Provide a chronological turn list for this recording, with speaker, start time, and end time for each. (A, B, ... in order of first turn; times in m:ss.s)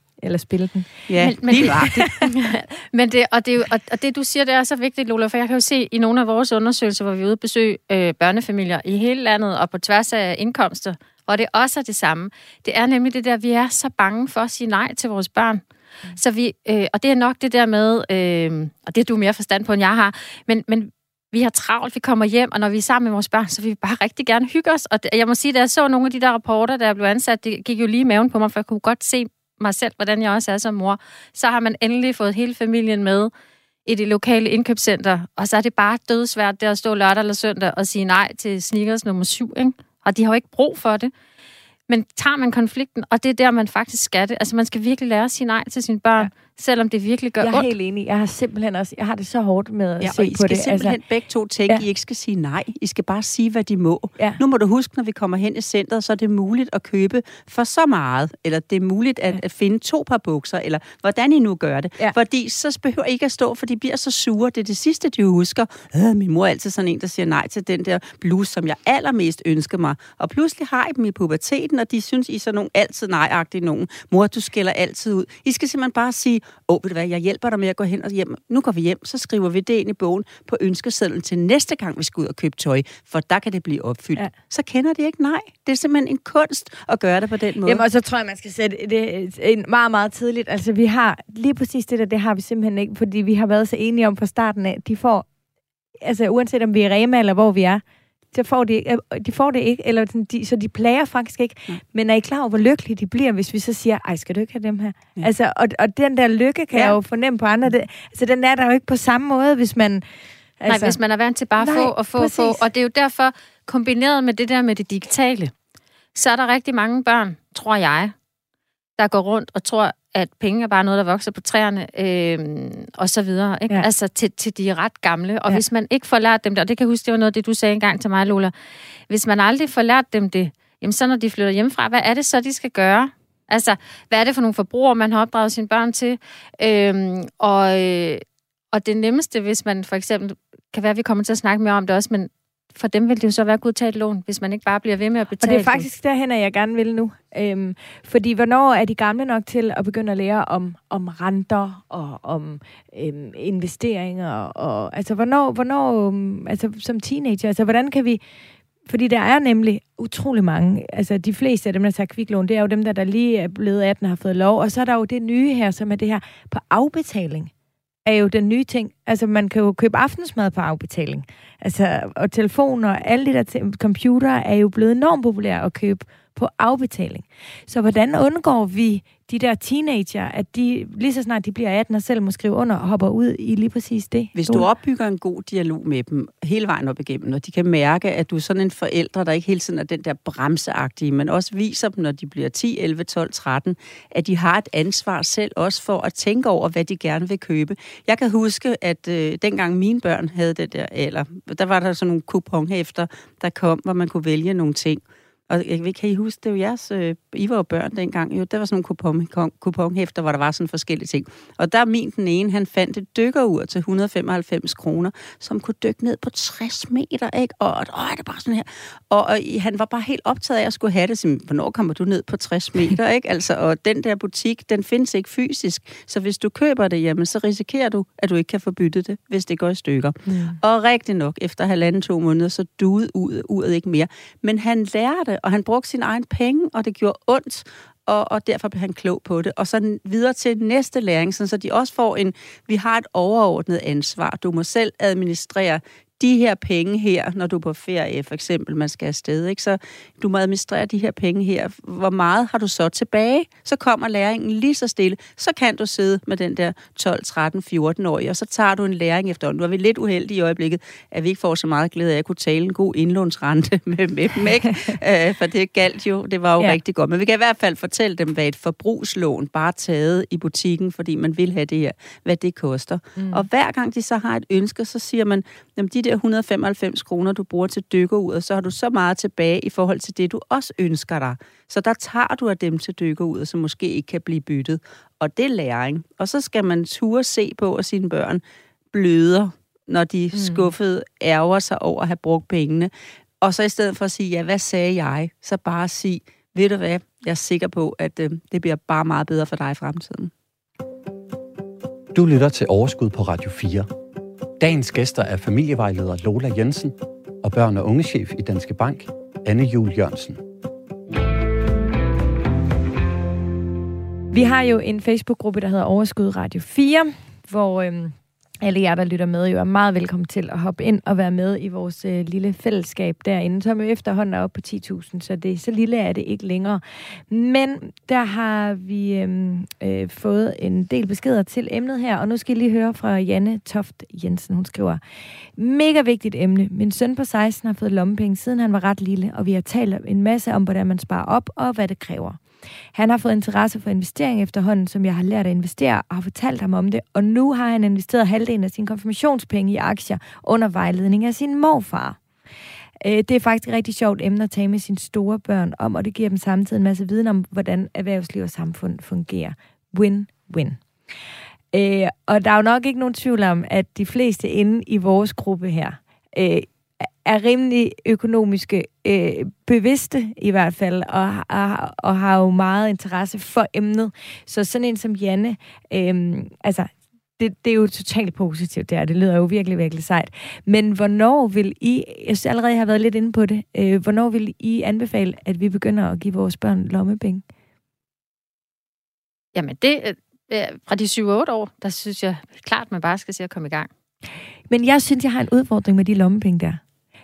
0:00.2-0:00.9 A
0:01.1-0:02.0 B
0:01.2-0:15.6 C
0:01.5-0:02.3 A
0:16.1-0:33.3 C
0:33.8-0:41.1 C
0:41.9-0:47.7 C
0:47.4-0:51.0 A
0:50.0-1:27.8 B
1:27.6-1:35.3 A
1:36.0-1:50.0 A
1:46.7-1:47.0 B
1:50.6-1:51.0 A
1:50.7-1:55.5 C
1:51.6-1:52.6 A
1:56.1-1:58.1 C
1:59.0-2:08.5 C
2:09.1-2:25.8 C
2:25.4-2:38.2 A
2:38.9-2:47.5 A
2:48.0-3:04.6 A
3:04.4-4:48.4 B
3:50.2-3:50.6 A
4:33.2-4:33.4 A
4:48.9-5:00.3 B
4:50.3-4:50.7 A
5:02.1-5:03.9 D
5:04.6-5:10.4 D
5:14.3-5:35.0 A
5:35.6-5:42.4 A
5:42.9-5:52.2 A
5:53.0-6:00.8 A
6:01.7-6:27.4 A
6:29.5-6:33.9 C
6:34.7-6:36.8 A